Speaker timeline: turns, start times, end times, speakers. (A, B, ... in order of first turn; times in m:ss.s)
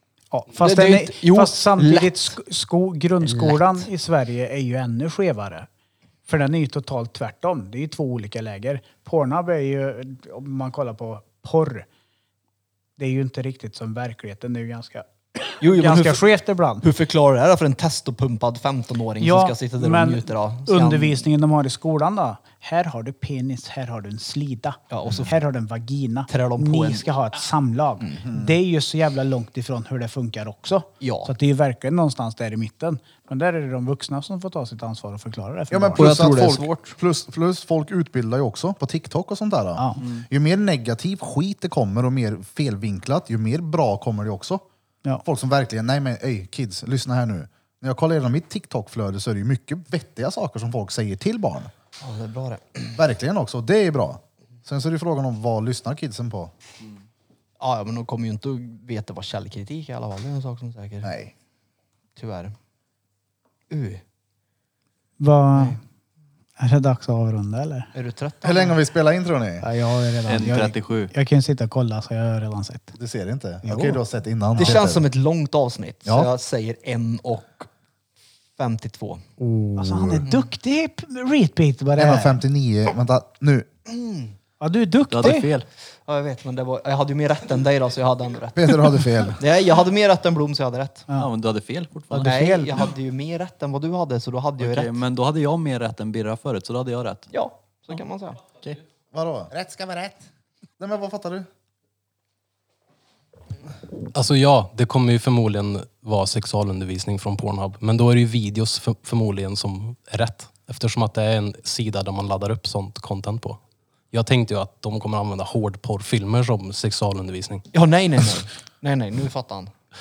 0:00.3-0:05.7 A
0:00.6-0:02.4 B
0:03.3-0:03.8 B
0:06.3-0:11.9 A
0:13.0-0:16.8 A
0:15.6-0:16.2 B
0:16.8-0:21.3 B
0:19.2-0:36.1 A
0:24.9-0:25.3 B
0:26.3-0:27.0 B
0:28.2-0:28.6 C
0:31.0-0:31.3 B
0:35.7-0:44.6 C
0:36.0-0:36.9 B
0:45.2-0:51.7 C
0:52.0-0:53.0 B
0:53.0-0:56.5 C
0:57.6-1:01.1 B
1:01.0-1:01.3 C
1:02.2-1:02.6 B
1:03.7-1:04.0 B
1:05.2-1:05.8 A
1:06.6-1:07.9 A
1:07.9-1:08.6 B
1:08.4-1:09.6 C
1:09.6-1:13.0 A
1:10.3-1:11.1 D
1:13.0-1:15.1 C
1:13.6-1:14.0 A
1:14.6-1:17.7 B
1:16.0-1:16.3 C
1:18.6-1:19.2 B
1:19.4-1:20.3 C
1:19.8-1:22.4 A
1:22.0-1:23.7 C
1:23.9-1:24.4 B
1:24.6-1:25.5 A
1:25.1-1:25.6 D
1:26.1-1:28.8 B
1:28.6-1:29.4 C
1:29.4-1:31.1 B
1:31.1-1:32.8 D
1:32.1-1:32.9 A
1:32.2-1:35.0 B
1:34.6-1:37.3 D
1:37.3-1:38.4 B
1:39.1-1:40.2 C
1:40.8-1:41.5 C
1:44.1-1:53.6 E
1:54.1-1:57.6 E
1:57.7-1:59.7 B